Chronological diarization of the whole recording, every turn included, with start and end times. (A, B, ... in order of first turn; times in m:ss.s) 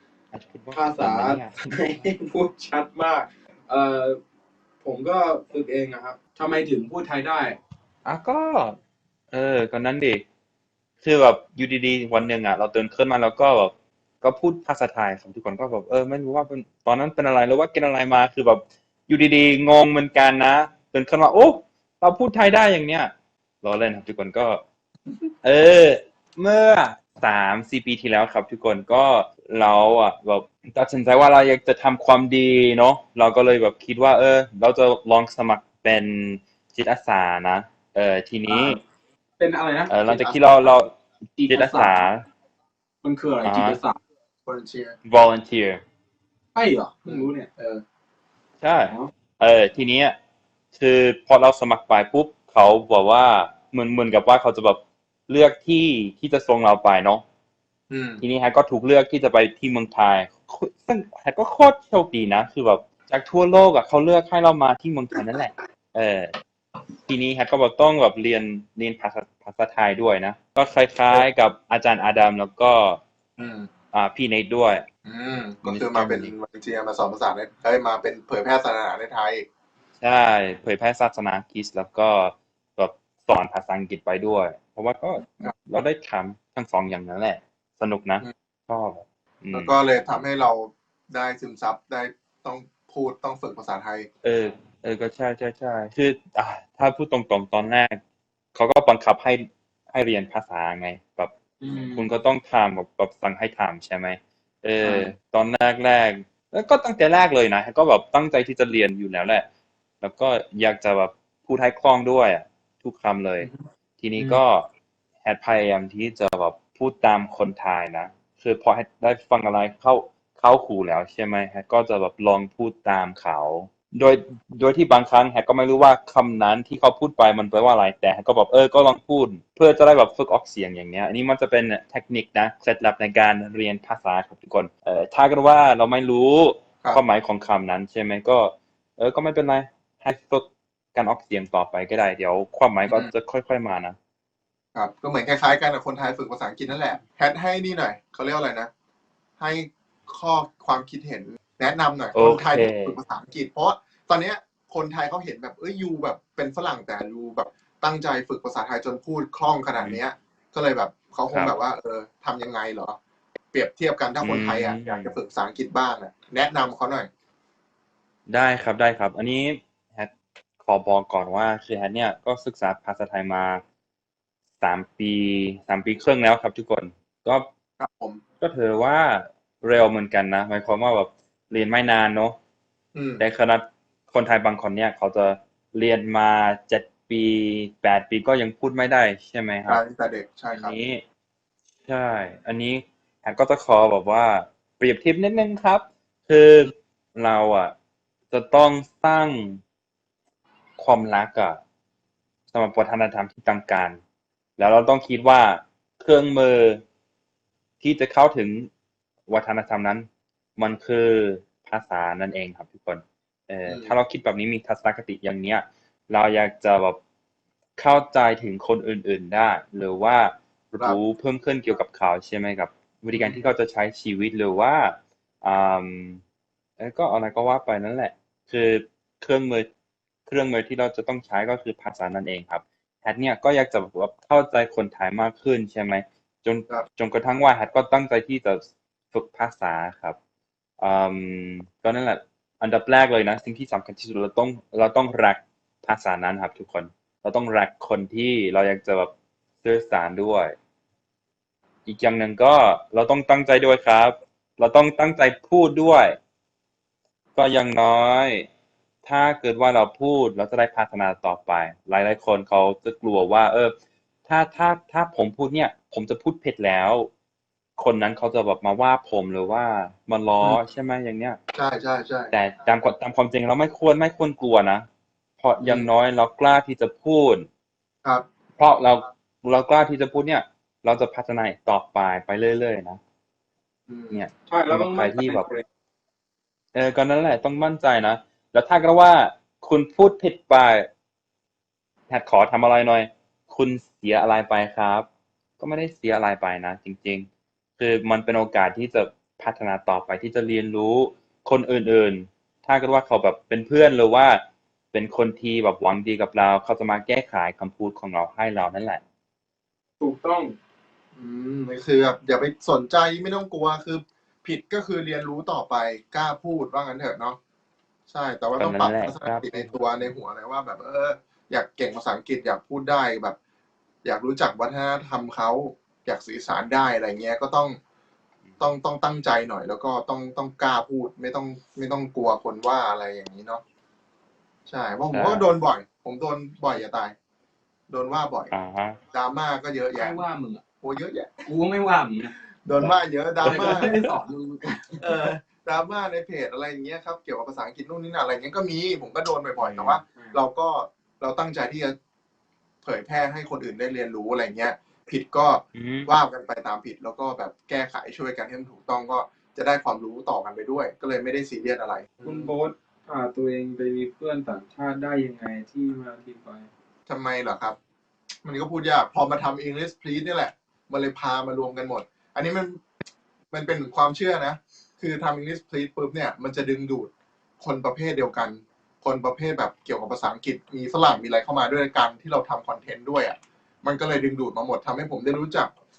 0:00.3-0:02.1 A
0:00.7-0:04.2 B
0:04.8-0:07.6 B
0:08.0-0:08.8 A
0:09.3-0:10.2 A
0:11.0-0:23.1 A
0:23.6-0:24.6 A
0:25.4-0:38.8 A
0:38.5-0:38.8 B
0:39.4-0:39.9 B
0:39.9-0:40.9 A
0:40.0-0:40.4 C
0:41.4-0:42.0 B
0:41.5-0:42.2 A
0:43.0-0:44.0 B
0:43.4-0:43.8 A
0:44.4-0:45.0 C
0:45.0-0:45.8 A
0:46.5-0:47.5 B
0:47.0-0:47.8 C
0:48.6-0:50.1 A
0:50.7-0:57.2 A
0:57.9-0:58.2 C
0:58.2-1:06.3 A
1:07.1-1:13.0 A
1:13.4-1:13.7 C
1:13.9-1:14.8 A
1:15.0-1:19.4 C
1:15.6-1:16.3 A
1:20.0-1:29.7 A
1:29.5-1:34.1 C
1:34.2-1:38.0 A
1:38.5-1:41.3 A
1:41.6-1:42.1 B
1:41.9-1:49.4 A
1:44.8-1:45.1 B
1:50.0-1:54.7 A
1:55.2-2:24.0 A
2:24.7-2:28.7 C
2:29.4-2:43.0 C
2:32.1-2:33.0 A
2:41.3-2:41.6 A
2:43.5-2:47.1 C
2:44.2-2:45.2 A
2:48.3-2:50.1 A
2:50.6-2:53.6 A
2:54.6-2:57.5 A
2:57.8-2:58.2 C
2:58.4-3:02.4 A
3:02.9-3:03.2 C
3:03.2-3:09.8 A
3:09.6-3:10.8 C
3:10.5-3:11.0 A
3:11.9-3:17.7 A
3:18.3-3:19.6 A
3:20.8-3:21.6 A
3:22.5-3:24.0 A
3:24.6-3:26.8 A
3:27.8-3:28.7 A
3:29.3-3:37.0 A
3:33.6-3:33.9 C
3:37.8-3:46.2 A
3:46.8-3:49.7 A
3:50.3-4:00.2 A
4:00.8-4:10.5 A
4:11.8-4:16.2 A
4:17.3-4:18.5 A
4:19.0-4:23.7 A
4:24.2-4:27.1 A
4:27.8-4:31.4 A
4:31.5-4:32.3 C
4:32.3-4:34.8 A
4:35.4-4:37.5 A
4:35.6-4:35.9 C
4:38.6-4:43.0 A
4:43.9-4:44.2 C
4:44.1-4:45.5 A
4:44.5-4:45.6 B
4:46.7-4:50.9 A
4:52.1-4:55.1 A
4:55.6-4:57.3 A
4:57.8-5:04.4 A
5:04.9-5:09.0 A
5:10.0-5:10.6 B
5:11.2-5:17.4 C
5:18.1-5:23.4 C
5:18.6-5:19.7 A
5:24.0-5:27.8 C
5:28.6-5:33.6 C
5:34.6-5:37.1 C
5:35.1-5:35.5 A
5:37.9-5:38.5 C
5:38.5-5:39.0 A
5:39.1-5:40.2 C
5:39.9-5:40.6 B
5:40.8-5:41.4 C
5:41.4-5:42.3 B
5:42.6-5:43.9 C
5:43.4-5:45.0 B
5:43.4-5:44.1 A
5:45.0-5:51.9 C
5:49.6-5:50.0 A
5:50.1-5:50.4 B
5:52.8-6:02.5 C
5:55.7-5:56.1 A
6:02.2-6:06.7 B
6:07.1-6:07.8 C
6:08.4-6:12.8 C
6:13.5-6:25.7 C